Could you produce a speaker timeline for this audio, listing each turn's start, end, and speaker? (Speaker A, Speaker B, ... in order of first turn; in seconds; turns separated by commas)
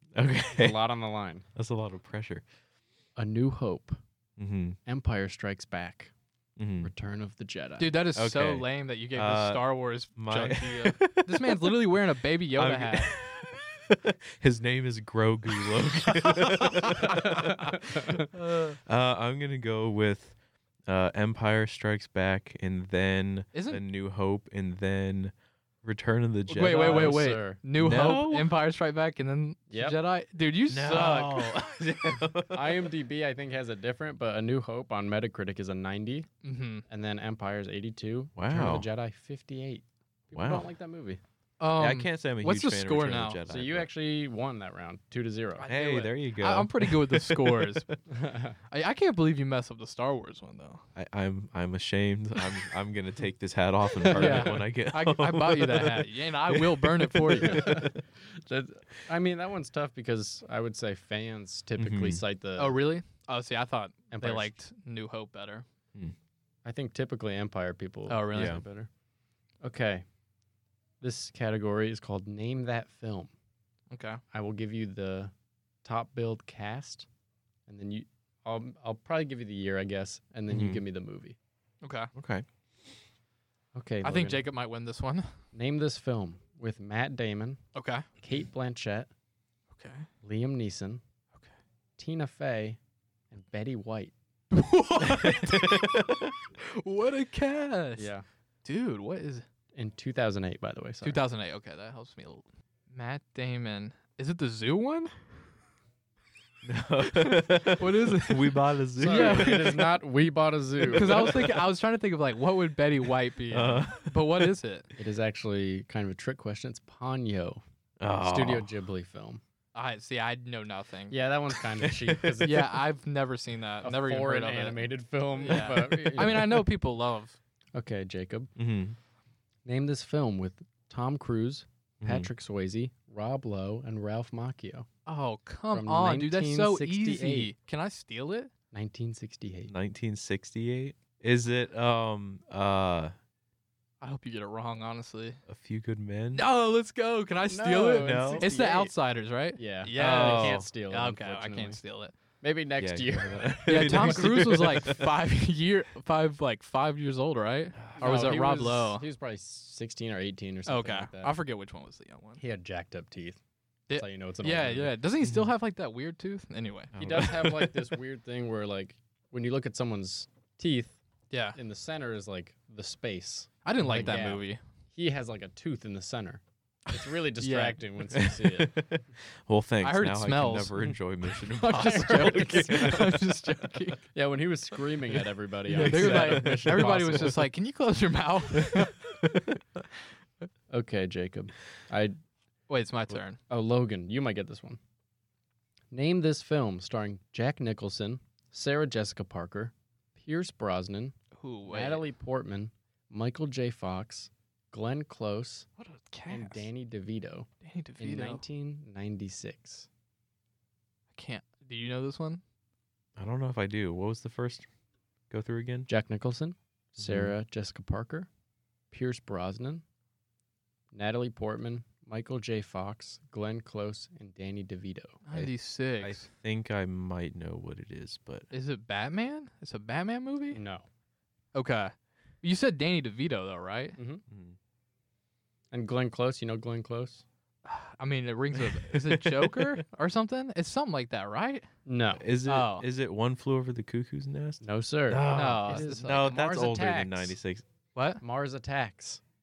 Speaker A: 0.1-0.8, Speaker B: 0.5-1.4, Speaker A: 1.6-2.4, Speaker B: 3.2-4.0, Speaker A: 4.4-4.8, Speaker B: 4.9-6.1, Speaker A: 6.6-6.9, Speaker B: 6.8-8.0, Speaker C: 7.8-13.1, Speaker A: 8.2-11.8, Speaker A: 12.5-20.4, Speaker C: 16.6-17.7, Speaker C: 18.3-18.8, Speaker A: 20.9-27.2, Speaker C: 23.5-23.8, Speaker C: 26.5-31.6, Speaker B: 26.6-27.6, Speaker A: 27.8-28.5, Speaker B: 29.7-30.0, Speaker A: 30.7-32.9, Speaker B: 32.5-36.3, Speaker C: 36.4-36.8, Speaker B: 36.9-41.2, Speaker A: 38.4-38.9, Speaker A: 40.3-40.7, Speaker C: 41.6-43.4, Speaker A: 41.8-43.9, Speaker B: 43.5-45.7, Speaker C: 45.6-47.9, Speaker A: 45.6-48.0, Speaker B: 48.1-48.6, Speaker C: 48.7-50.8, Speaker A: 51.0-57.9, Speaker B: 54.0-54.6, Speaker C: 54.1-57.9, Speaker B: 57.4-62.8, Speaker A: 61.8-62.2, Speaker C: 62.6-65.7, Speaker B: 64.1-64.5, Speaker B: 66.7-68.9, Speaker C: 68.1-68.6, Speaker A: 68.3-68.6, Speaker B: 69.6-70.0, Speaker B: 71.0-73.3, Speaker C: 73.9-74.2, Speaker B: 74.3-75.3, Speaker B: 75.8-77.1, Speaker B: 77.7-81.4, Speaker A: 80.5-80.8, Speaker C: 81.8-82.1, Speaker A: 82.2-82.5, Speaker B: 83.8-84.4, Speaker C: 84.0-85.3, Speaker B: 85.5-87.6, Speaker C: 87.8-88.1, Speaker B: 88.2-89.1, Speaker C: 89.7-90.1, Speaker B: 90.2-91.0, Speaker B: 92.0-92.8, Speaker B: 93.3-94.1, Speaker C: 94.5-96.0, Speaker A: 95.0-96.3, Speaker C: 96.6-98.1, Speaker B: 98.0-98.2, Speaker C: 98.6-99.5, Speaker B: 99.8-101.2, Speaker C: 101.0-105.1, Speaker A: 106.6-109.9, Speaker C: 107.1-109.8, Speaker B: 109.0-111.5, Speaker C: 110.9-114.9, Speaker A: 110.9-111.6, Speaker A: 113.5-114.3, Speaker B: 115.0-117.6, Speaker A: 118.0-118.7, Speaker B: 118.2-119.4, Speaker C: 119.8-121.2, Speaker B: 121.1-122.8, Speaker A: 121.8-122.5, Speaker C: 122.4-124.8, Speaker B: 123.8-126.6, Speaker C: 125.4-127.4, Speaker A: 125.6-126.6, Speaker B: 127.8-128.5, Speaker A: 128.6-129.0, Speaker B: 129.7-134.9, Speaker A: 132.0-132.3, Speaker C: 135.1-138.5, Speaker B: 135.7-137.5, Speaker B: 138.7-139.7, Speaker A: 139.7-143.1, Speaker C: 144.0-145.4, Speaker A: 145.5-146.4, Speaker C: 146.3-152.2, Speaker B: 147.5-148.9, Speaker A: 148.0-148.5, Speaker B: 149.6-151.8, Speaker A: 150.0-150.7, Speaker B: 152.4-154.5, Speaker A: 152.8-155.1, Speaker C: 153.7-159.0, Speaker A: 157.8-158.2, Speaker B: 158.0-161.3, Speaker C: 160.7-162.4, Speaker B: 162.4-163.4, Speaker C: 163.9-167.3, Speaker B: 163.9-164.9, Speaker A: 165.2-165.5, Speaker A: 166.9-167.7, Speaker B: 167.0-171.0, Speaker C: 171.3-171.6, Speaker B: 171.6-178.7, Speaker C: 173.7-174.6, Speaker A: 173.8-174.1, Speaker C: 177.4-177.8, Speaker A: 178.1-183.2, Speaker C: 179.8-184.0, Speaker B: 181.7-183.1, Speaker B: 184.1-187.5, Speaker A: 185.7-187.3, Speaker C: 185.7-189.1, Speaker A: 188.6-189.6, Speaker B: 190.7-192.2, Speaker C: 192.7-193.4, Speaker B: 193.5-194.8, Speaker B: 195.9-205.7, Speaker C: 201.3-202.1, Speaker C: 205.8-206.7, Speaker B: 206.3-207.5, Speaker C: 207.6-208.4, Speaker B: 208.0-209.9, Speaker C: 211.1-212.4, Speaker A: 213.2-214.7, Speaker A: 215.3-215.9, Speaker B: 215.9-218.3, Speaker A: 217.0-217.3, Speaker B: 218.9-219.8, Speaker B: 220.9-225.2, Speaker C: 225.3-226.3, Speaker A: 225.3-228.5, Speaker C: 228.5-230.6, Speaker B: 230.5-230.9, Speaker C: 231.5-234.0, Speaker B: 234.0-234.2, Speaker A: 234.3-234.6, Speaker B: 235.7-237.2, Speaker C: 237.7-241.7, Speaker A: 238.6-239.8, Speaker B: 241.9-242.2, Speaker A: 242.2-247.6, Speaker C: 242.5-242.9, Speaker B: 244.6-247.4, Speaker C: 245.3-246.2, Speaker C: 247.9-248.2, Speaker B: 248.2-249.2